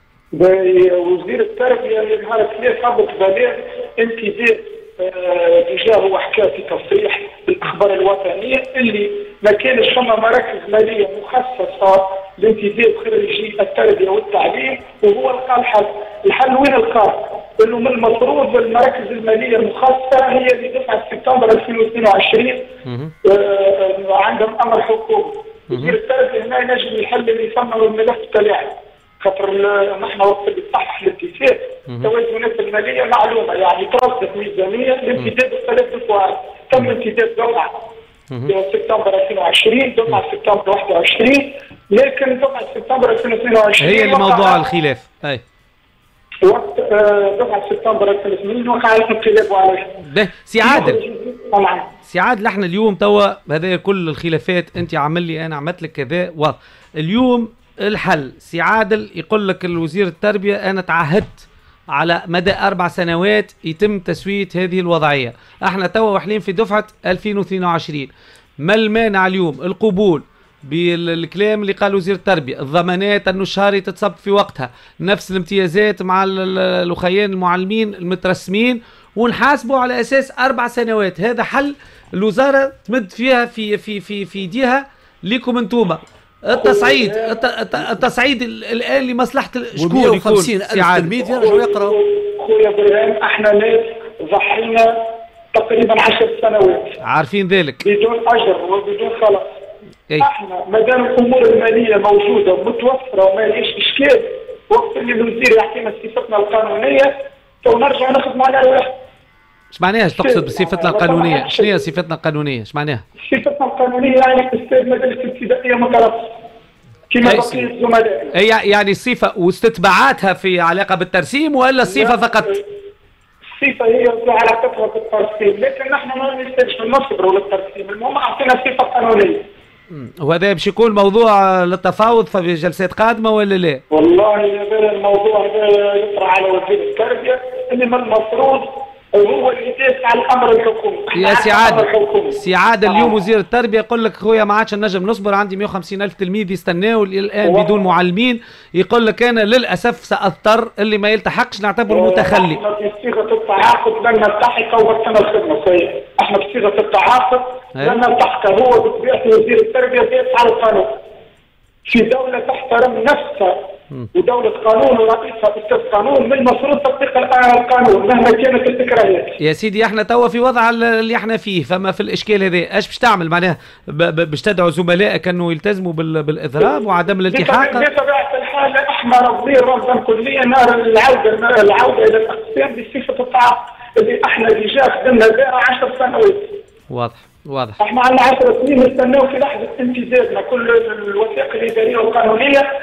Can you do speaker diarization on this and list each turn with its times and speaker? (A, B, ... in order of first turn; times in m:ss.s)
0:00.3-0:22.7 A
0:22.8-0:23.1 B
0:23.2-0:37.7 A
0:25.7-0:26.0 B
0:38.3-0:38.5 B
0:38.5-0:44.6 A
0:43.8-0:45.4 B
0:46.4-0:50.0 A
0:50.0-0:51.0 B
0:50.6-0:51.9 A
0:52.1-1:08.1 B
1:08.6-1:31.1 B
1:26.5-1:27.4 A
1:29.8-1:32.0 C
1:31.3-1:35.0 A
1:35.5-1:37.0 A
1:37.0-1:37.8 B
1:37.8-1:39.5 A
1:40.2-1:48.9 A
1:49.7-1:53.0 B
1:50.2-1:51.8 A
1:53.2-1:56.3 A
1:57.1-1:58.3 A
1:57.2-1:57.7 B
1:58.3-2:02.6 B
2:01.9-2:02.6 A
2:03.6-2:09.4 A
2:09.9-2:13.8 B
2:13.9-2:23.2 A
2:21.1-2:32.6 B
2:27.4-2:27.8 A
2:31.9-2:41.0 A
2:37.7-2:38.0 B
2:41.9-2:43.6 A
2:44.1-2:49.3 A
2:49.4-2:57.9 B
2:56.6-3:06.6 A
3:06.9-3:07.8 B
3:07.8-3:12.7 A